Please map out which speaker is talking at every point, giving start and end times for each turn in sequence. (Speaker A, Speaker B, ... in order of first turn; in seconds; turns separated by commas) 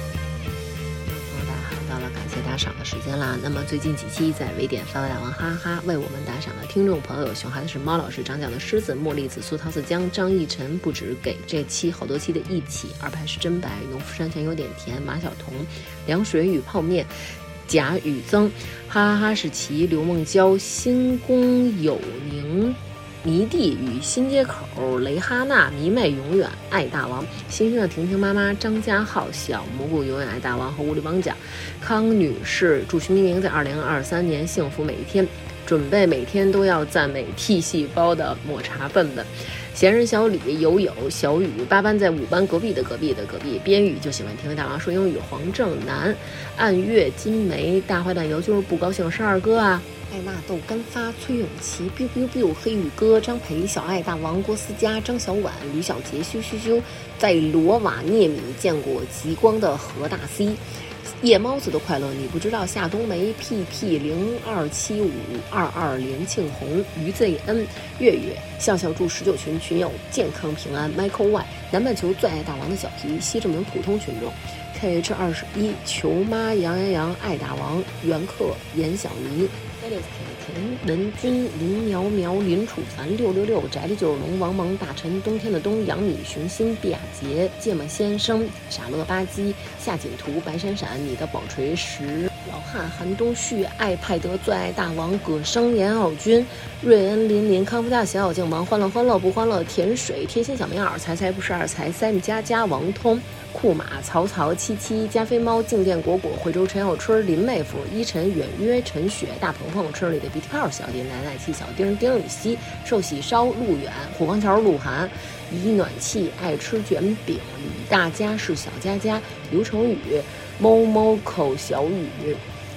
Speaker A: 1.0-17.1, Speaker A: 17.7-60.6, Speaker A: 61.2-122.4